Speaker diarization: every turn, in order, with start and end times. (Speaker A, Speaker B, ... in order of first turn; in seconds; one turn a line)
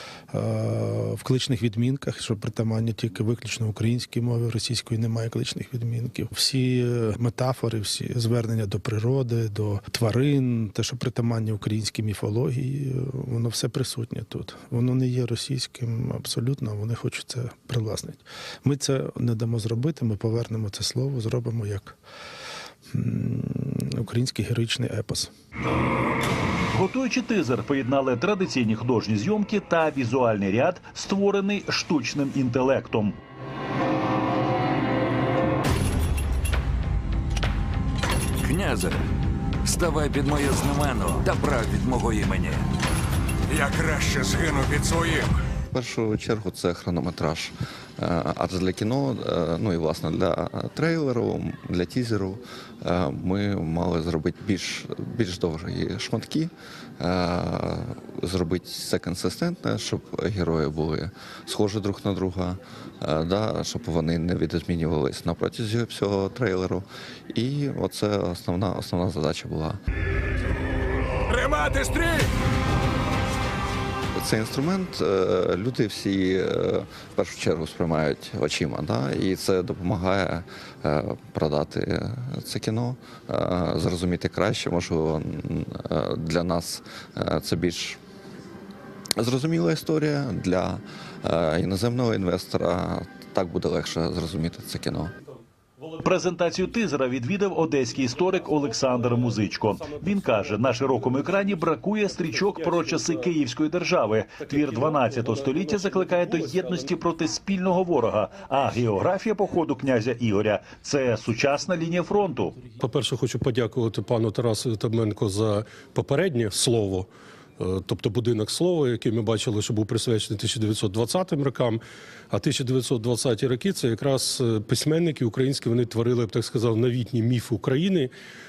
Speaker A: 0.3-22.0
Speaker A: 22.9-25.3
Speaker B: 26.7-33.2
Speaker C: 38.4-39.0
Speaker C: 39.6-42.7
Speaker D: 43.5-45.5
Speaker E: 45.7-69.8
Speaker D: 71.3-72.3
Speaker E: 74.2-88.0
Speaker E: 89.2-95.1
Speaker B: 96.0-112.6
Speaker F: 98.2-103.3
Speaker F: 104.4-106.9
Speaker F: 112.8-128.1